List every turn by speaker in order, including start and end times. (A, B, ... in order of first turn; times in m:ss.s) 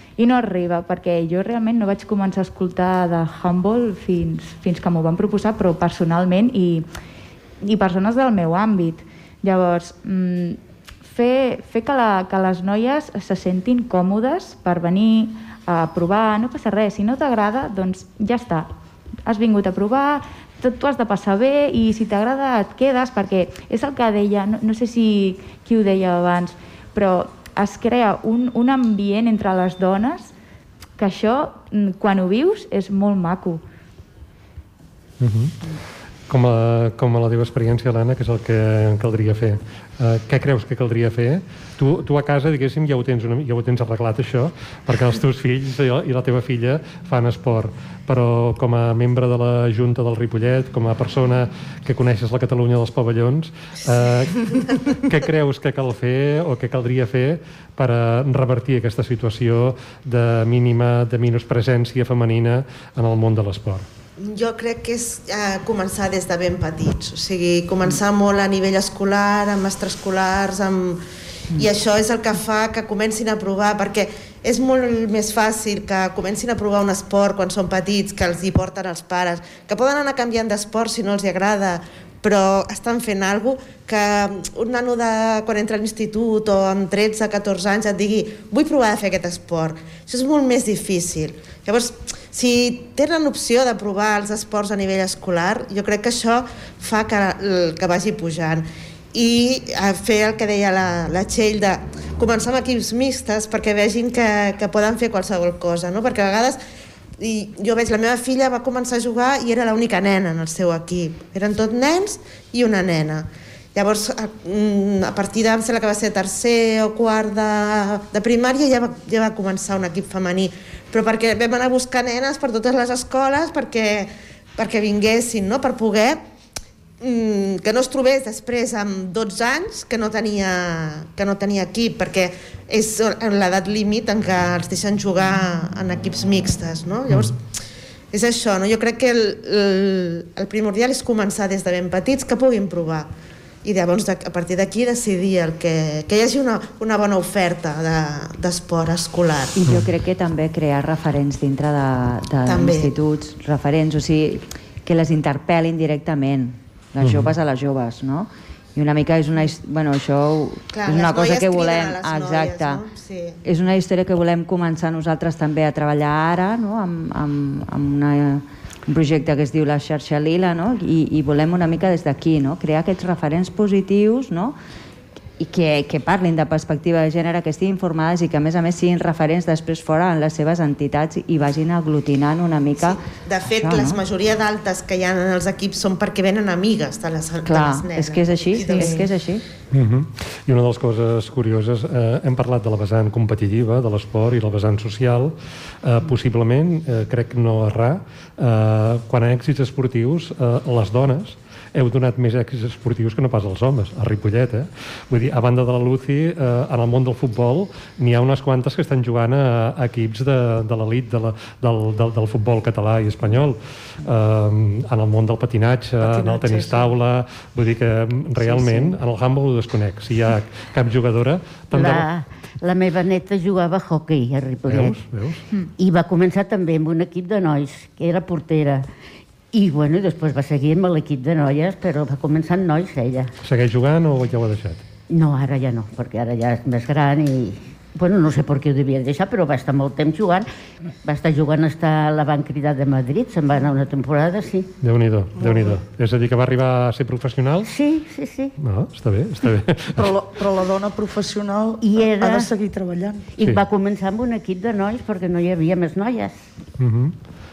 0:00.2-0:06.8 A
0:07.6-0:18.7 A
0:19.2-0:30.3 A
0:31.0-0:33.6 A
0:35.2-0:35.7 B
0:36.3-1:03.8 B
1:04.2-1:11.0 C
1:11.5-1:46.6 C
1:47.2-2:06.2 C
2:07.0-2:17.4 C
2:18.1-2:23.1 C
2:23.6-2:29.6 C
2:29.6-2:42.8 D
2:29.6-2:29.9 B
2:32.4-2:32.9 C
2:37.0-2:37.3 B
2:40.7-2:43.4 C
2:43.4-2:54.6 D
2:55.4-3:04.0 D
3:02.8-3:09.1 C
3:07.4-3:09.4 D
3:09.7-3:42.1 B
3:36.0-3:36.9 E
3:38.4-3:38.9 F
3:41.7-3:45.0 F
3:44.6-3:45.4 B
3:45.8-3:48.8 F
3:49.5-3:53.3 F
3:53.4-3:54.8 B
3:55.1-4:00.5 F
4:01.0-4:04.7 F
4:04.8-4:07.7 B
4:05.4-4:05.8 E
4:07.6-4:08.5 F
4:08.6-4:10.1 B
4:10.0-4:13.3 E
4:11.8-4:12.5 F
4:13.4-4:16.3 F
4:16.8-4:17.2 B